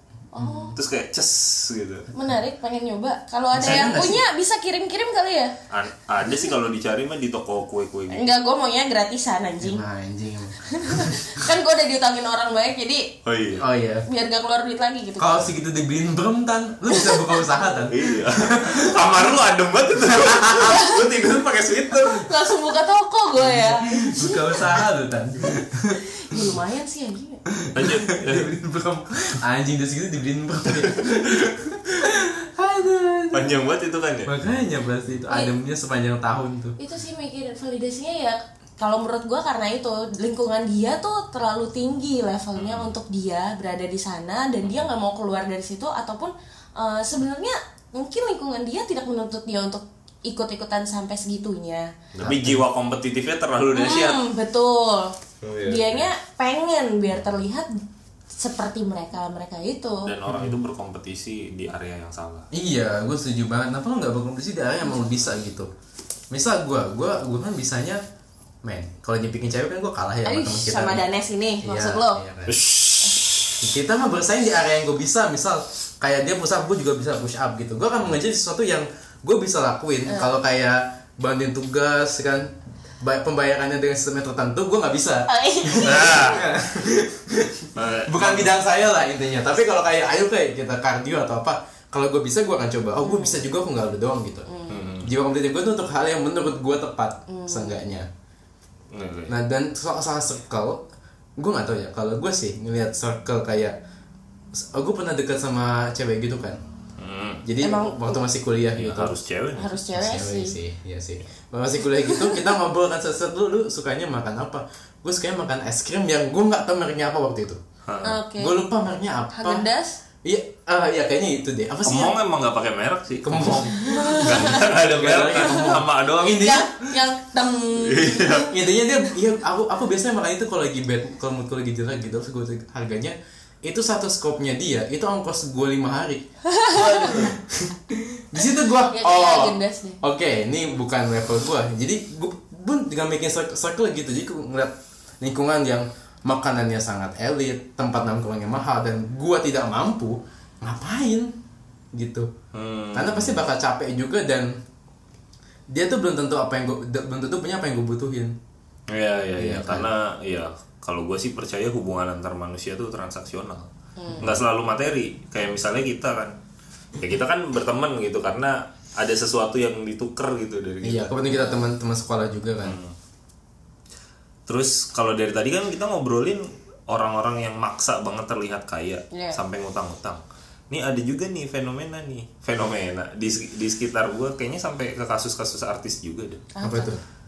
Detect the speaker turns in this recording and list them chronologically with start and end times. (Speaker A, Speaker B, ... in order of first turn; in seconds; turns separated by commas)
Speaker A: 0.3-0.7, Speaker B: 0.4-0.7, Speaker C: 0.7-2.1, Speaker A: 2.1-5.5, Speaker B: 3.5-4.2, Speaker C: 5.7-8.2, Speaker A: 8.1-9.8, Speaker B: 9.6-11.4, Speaker A: 10.6-13.1, Speaker C: 13.2-13.7, Speaker B: 13.6-14.1, Speaker A: 14.1-15.4, Speaker B: 15.2-19.3, Speaker A: 16.9-17.4, Speaker C: 17.9-22.3, Speaker B: 20.1-20.8, Speaker A: 20.6-21.0, Speaker A: 21.9-24.7, Speaker B: 23.4-26.5, Speaker A: 26.0-27.4, Speaker B: 27.5-33.6, Speaker C: 27.7-28.5, Speaker C: 33.3-34.4, Speaker B: 34.2-36.8, Speaker A: 36.8-51.9, Speaker C: 42.5-42.9, Speaker C: 52.1-54.2, Speaker B: 52.2-52.6, Speaker A: 53.7-57.7, Speaker C: 55.4-56.1, Speaker A: 58.3-60.1, Speaker C: 60.0-62.5, Speaker B: 60.3-60.5, Speaker B: 62.5-65.7, Speaker B: 66.3-68.0, Speaker B: 68.6-71.0, Speaker A: 70.2-72.2, Speaker B: 71.6-72.6, Speaker C: 72.5-73.6, Speaker B: 73.6-94.5, Speaker A: 85.3-86.3, Speaker C: 85.8-86.4, Speaker C: 87.7-88.5, Speaker A: 93.0-93.4, Speaker A: 94.5-94.9, Speaker C: 94.7-95.1, Speaker B: 95.0-98.1, Speaker A: 97.3-97.8, Speaker C: 98.9-99.3, Speaker B: 99.3-100.8, Speaker B: 101.4-103.8, Speaker B: 104.5-106.6, Speaker C: 107.0-107.4, Speaker B: 107.4-109.1, Speaker A: 107.6-108.2, Speaker C: 108.8-109.8, Speaker A: 109.5-110.5, Speaker B: 109.9-117.6, Speaker A: 112.0-112.4, Speaker C: 117.8-118.2, Speaker A: 118.0-118.6, Speaker B: 118.4-119.7, Speaker A: 119.3-120.0, Speaker B: 120.2-122.2, Speaker C: 121.8-126.5, Speaker B: 123.2-126.9, Speaker A: 123.8-124.6, Speaker A: 126.2-128.5, Speaker C: 127.8-128.5, Speaker B: 128.5-151.3, Speaker A: 136.5-137.2, Speaker A: 138.9-140.0, Speaker B: 151.9-152.3, Speaker C: 152.5-153.4, Speaker B: 152.9-154.5, Speaker B: 155.7-158.3, Speaker C: 158.9-166.3, Speaker B: 159.3-159.9, Speaker A: 164.0-164.3, Speaker C: 167.0-171.2, Speaker B: 170.8-172.8, Speaker A: 171.3-171.6, Speaker C: 172.6-172.9, Speaker C: 174.5-186.4, Speaker A: 179.1-179.4, Speaker A: 186.5-187.0, Speaker B: 186.6-187.0